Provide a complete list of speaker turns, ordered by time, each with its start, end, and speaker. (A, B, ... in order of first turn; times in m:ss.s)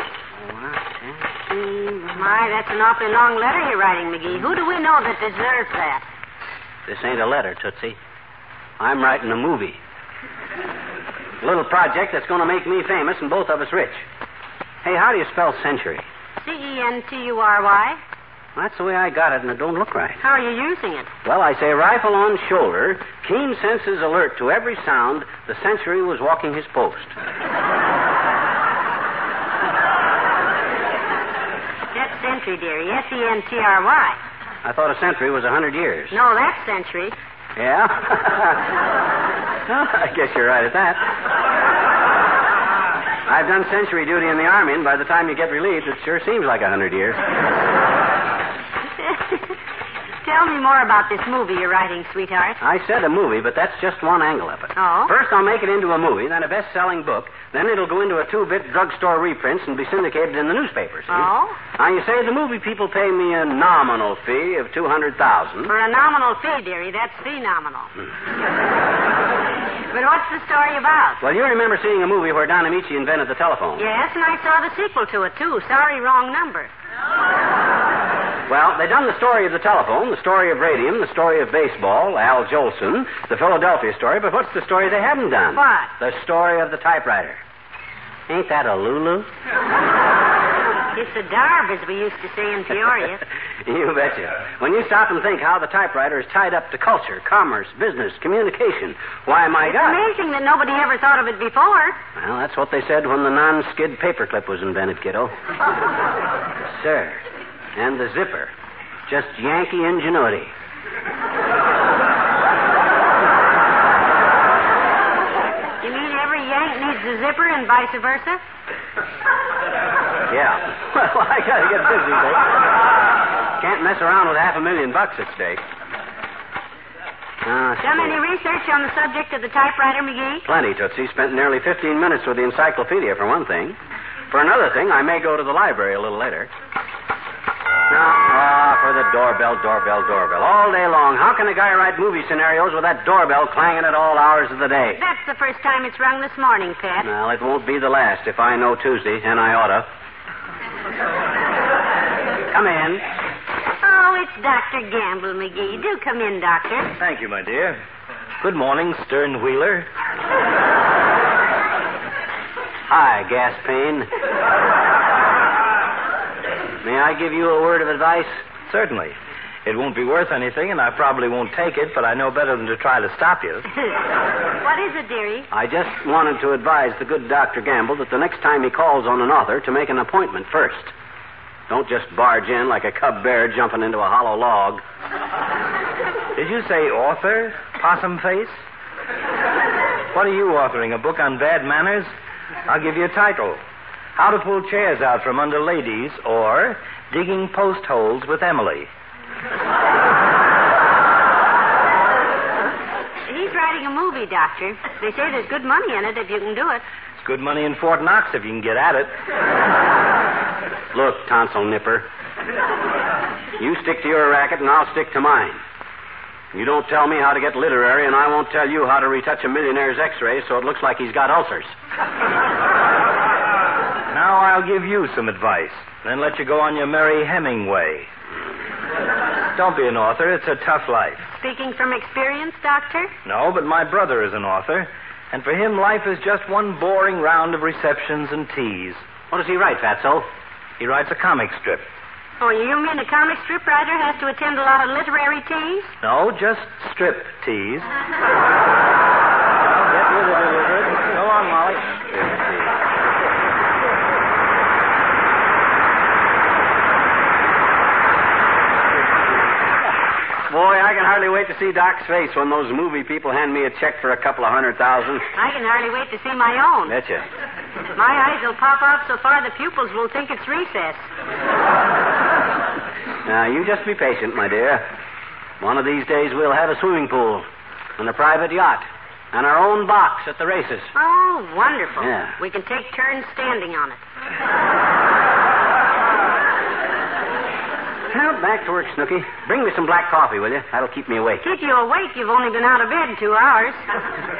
0:00.3-0:02.2 A
0:02.1-0:06.0 B
0:06.8-0:08.0 A
0:08.8-0:09.8 A
0:11.4-0:14.0 A
0:14.8-0:16.1 A
0:16.4-0:18.0 B
0:18.6-0:20.2 A
0:20.2-0:21.1 B
0:21.2-0:27.1 A
0:31.9-0:34.2 B
0:34.6-0:36.2 A
0:36.1-0:37.2 B
0:37.6-0:38.7 A
0:39.6-0:41.1 A
0:43.3-0:47.2 A
0:49.0-0:49.6 B
0:50.2-0:52.6 B
0:52.6-1:05.7 A
0:54.8-0:55.1 B
1:01.1-1:01.6 B
1:05.7-1:07.9 B
1:09.9-1:11.2 B
1:11.2-1:13.8 A
1:13.8-1:16.7 B
1:18.5-1:27.4 A
1:25.5-1:25.9 B
1:28.3-1:29.3 A
1:30.9-1:33.2 B
1:33.6-1:40.0 A
1:39.6-1:42.0 B
1:42.2-1:45.3 A
1:46.7-1:47.2 A
1:47.8-1:48.5 A
1:49.1-1:50.5 A
1:55.8-1:58.4 B
2:00.3-2:02.6 A
2:03.6-2:05.6 A
2:07.4-2:08.2 A
2:07.8-2:10.4 B
2:10.4-2:13.8 A
2:14.3-2:16.5 A
2:17.9-2:25.0 A
2:25.0-2:27.1 B
2:27.0-2:29.9 A
2:32.5-2:33.0 A
2:33.8-2:36.9 B
2:37.0-2:37.8 C
2:38.4-2:39.9 C
2:42.9-2:44.1 A
2:46.8-2:48.4 A
2:48.7-2:53.6 C
2:54.6-2:55.5 B
2:55.5-3:00.9 A
3:01.7-3:04.8 A
3:06.4-3:08.6 C
3:10.1-3:12.1 C
3:12.7-3:13.6 C
3:14.2-3:18.9 C
3:23.3-3:26.8 B
3:27.2-3:29.1 C
3:30.9-3:32.1 A
3:33.6-3:35.6 A
3:36.5-3:41.7 A
3:44.1-3:48.1 C
3:49.5-3:51.3 C
3:51.4-3:53.1 B
3:53.2-3:59.0 C
3:59.3-4:00.3 A
4:00.8-4:01.9 C
4:02.4-4:05.9 B
4:06.0-4:07.9 C
4:09.6-4:11.9 C
4:20.5-4:25.3 A
4:25.4-4:26.9 B
4:26.9-4:27.2 A
4:28.0-4:31.0 B
4:33.2-4:34.8 A
4:35.6-4:37.4 A
4:38.0-4:40.9 A
4:40.9-4:44.0 B
4:42.0-4:42.4 A
4:48.1-4:51.4 A
4:51.4-4:53.8 B